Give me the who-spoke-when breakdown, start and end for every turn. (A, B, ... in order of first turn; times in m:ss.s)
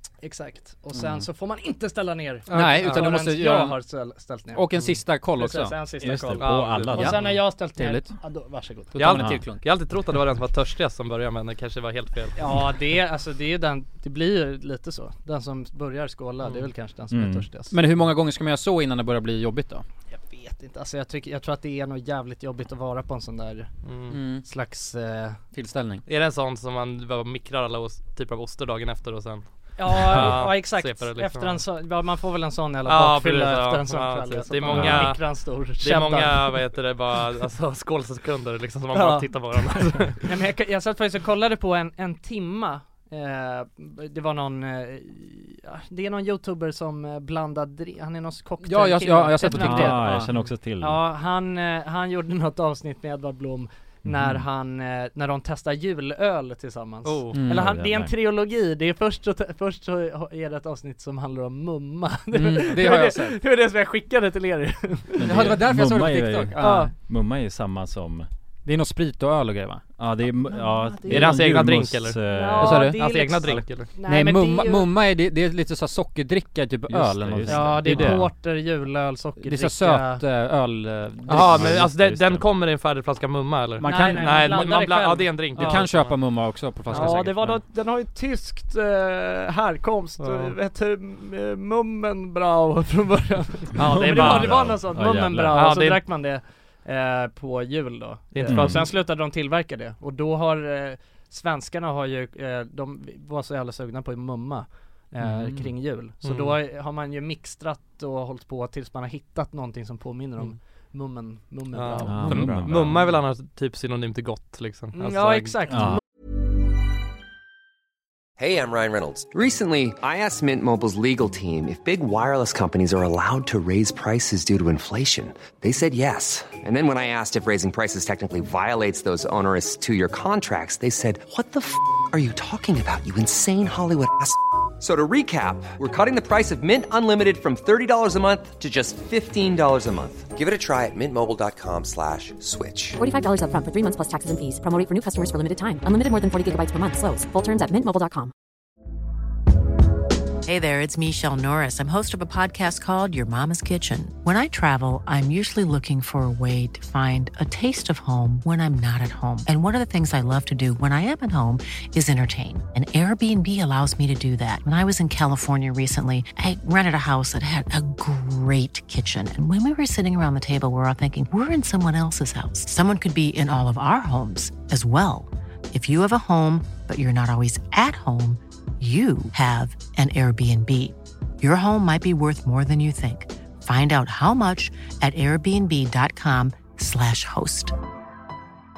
0:00.2-0:09.0 A
0:01.0-0:01.2 B
0:02.5-0:03.8 B
0:02.5-0:03.1 C
0:04.5-0:05.8 B
0:06.0-0:07.2 D
0:06.4-0:07.3 C
0:07.0-0:08.1 B
0:08.9-0:09.6 B
0:09.0-0:12.4 C
0:09.2-0:09.4 D
0:12.4-0:17.8 A
0:17.1-0:17.4 D
0:17.7-0:19.8 B
0:20.1-0:23.7 A
0:23.8-0:24.2 C
0:24.1-0:24.4 B
0:24.3-0:25.4 A
0:25.5-0:26.0 B
0:26.0-0:31.6 C
0:29.8-0:36.6 A
0:32.8-0:40.2 C
0:34.7-0:35.1 D
0:38.9-0:39.4 A
0:40.1-0:50.3 A
0:48.6-0:50.3 B
0:49.5-0:51.0 D
0:50.8-1:05.6 A
0:54.0-0:54.4 D
0:57.0-0:57.4 C
0:57.3-0:57.7 B
0:57.4-0:58.1 D
1:02.3-1:03.4 B
1:05.2-1:08.3 D
1:05.2-1:06.9 B
1:06.6-1:06.9 A
1:08.6-1:09.8 B
1:10.0-1:12.9 D
1:11.1-1:12.2 C
1:12.3-1:14.9 A
1:12.6-1:13.0 B
1:12.9-1:13.9 C
1:14.0-1:18.3 B
1:16.9-1:18.2 D
1:17.5-1:20.2 A
1:19.4-1:21.9 B
1:21.3-1:26.1 C
1:21.3-1:22.5 D
1:23.8-1:24.8 B
1:23.8-1:25.9 A
1:25.5-1:27.6 B
1:26.9-1:27.2 C
1:26.9-1:52.6 A
1:30.2-1:30.5 C
1:33.8-1:34.7 C
1:33.8-1:35.6 D
1:35.5-1:36.0 C
1:38.3-1:38.8 C
1:38.5-1:38.8 D
1:45.2-1:45.6 D
1:46.2-1:46.6 C
1:51.7-1:55.6 C
1:52.0-1:53.1 D
1:54.9-1:56.0 A
1:55.7-1:56.0 D
1:58.4-2:23.0 E
2:23.0-2:28.3 F
2:30.4-3:07.7 G